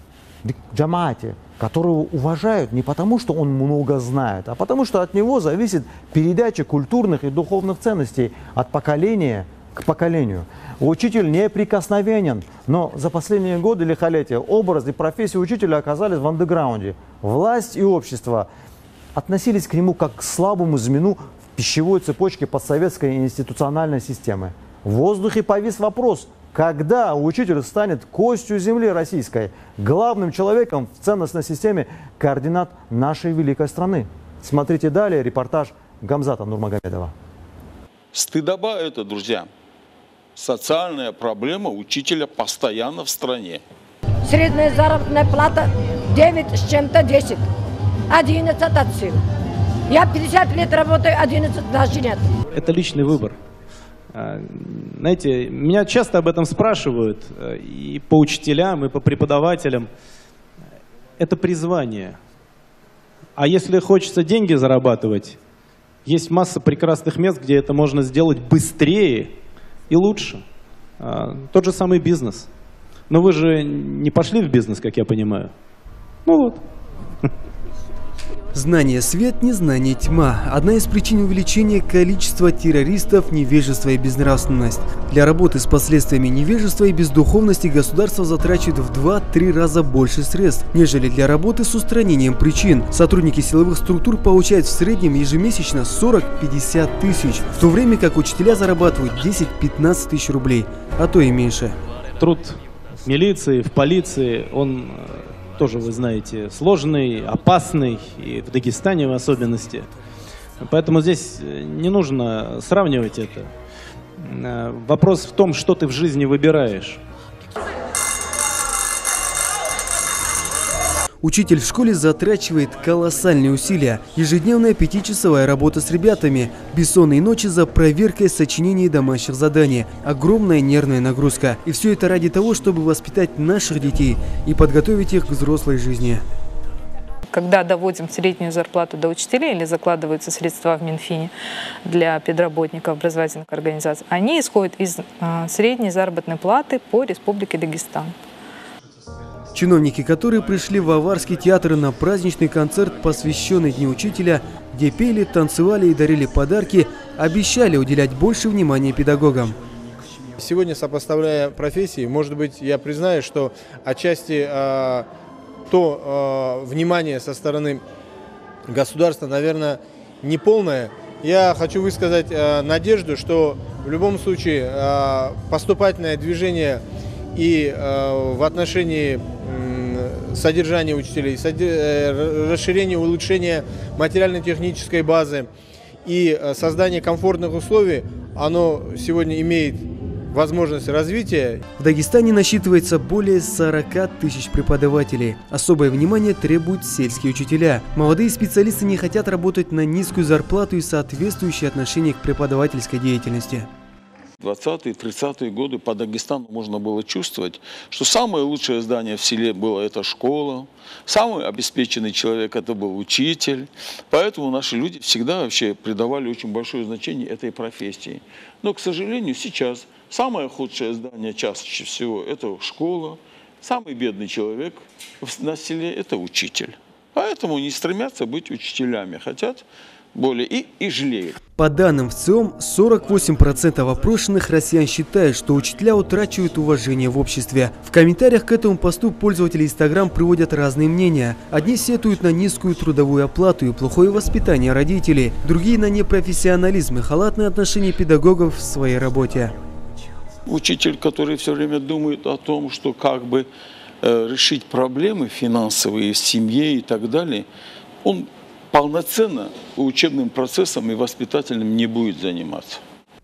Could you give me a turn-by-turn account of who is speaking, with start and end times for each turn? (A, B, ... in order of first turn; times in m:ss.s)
0:00.4-0:18.5 A
0:19.2-0:37.1 A
0:38.1-0:39.5 B
0:40.4-0:43.6 B
0:44.2-0:47.5 C
0:48.1-0:49.2 C
0:49.9-0:52.3 C
0:52.5-0:53.4 D
0:54.1-0:59.9 D
1:01.2-1:02.2 D
1:03.4-1:05.4 D
1:06.0-1:09.4 D
1:09.9-1:10.4 D
1:11.0-1:12.5 D
1:13.1-1:15.5 D
1:16.3-1:16.6 D
1:18.5-1:41.8 E
1:42.2-1:49.9 D
1:50.6-1:53.5 D
1:54.2-1:57.0 D
2:01.2-2:16.2 E
2:17.3-2:21.3 F
2:21.8-2:28.1 F
2:29.5-2:39.6 E
2:40.4-2:45.1 G
2:45.7-2:47.8 G
2:48.7-2:56.8 G
2:57.4-3:05.5 G
3:06.0-3:11.6 G
3:11.8-3:23.7 E
3:24.4-3:49.6 B
3:50.2-3:51.4 B
3:51.6-4:09.6 E
4:10.5-4:13.5 B
4:14.0-4:17.5 B
4:18.0-4:22.8 B